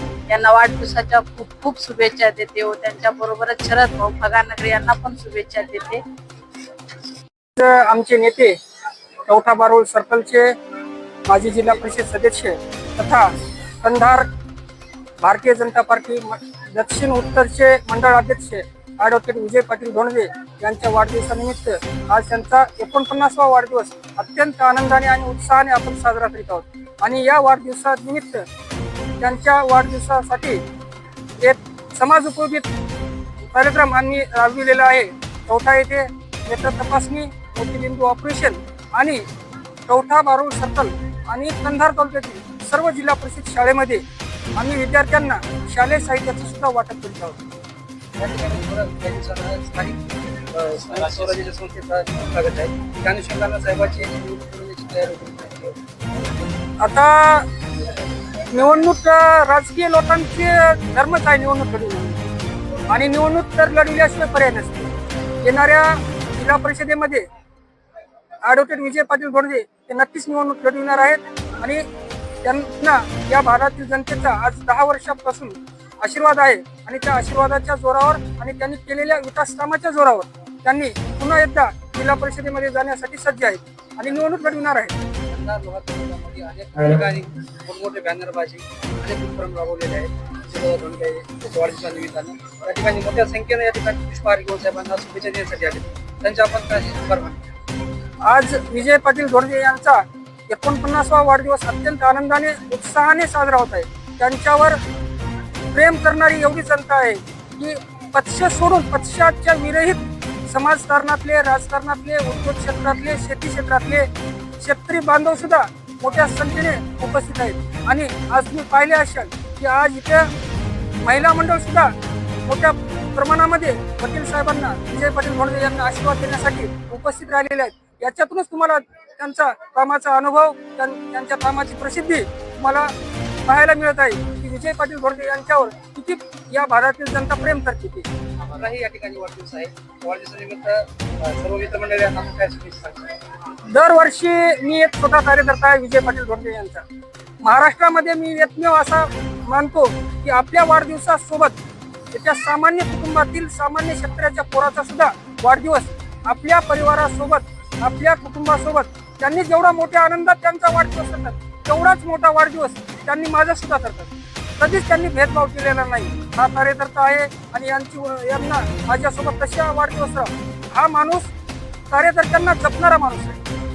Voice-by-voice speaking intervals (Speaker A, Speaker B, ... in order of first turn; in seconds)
Speaker A: 0.3-6.0
Speaker B: 7.5-8.5, 9.2-10.5, 11.3-14.3, 15.2-28.4, 29.2-30.6, 31.4-32.6, 33.5-39.2, 39.9-44.0, 44.6-47.5, 56.8-57.5, 58.5-62.2, 62.9-64.9, 65.4-67.2, 68.4-71.8, 72.4-84.9, 98.2-104.8, 105.7-114.1, 114.6-120.3, 121.0-121.9, 122.4-132.9, 133.4-138.1, 143.7-146.8, 147.4-151.5, 152.1-171.3, 171.9-173.4
Speaker C: 48.2-55.8, 85.3-97.4, 138.5-143.1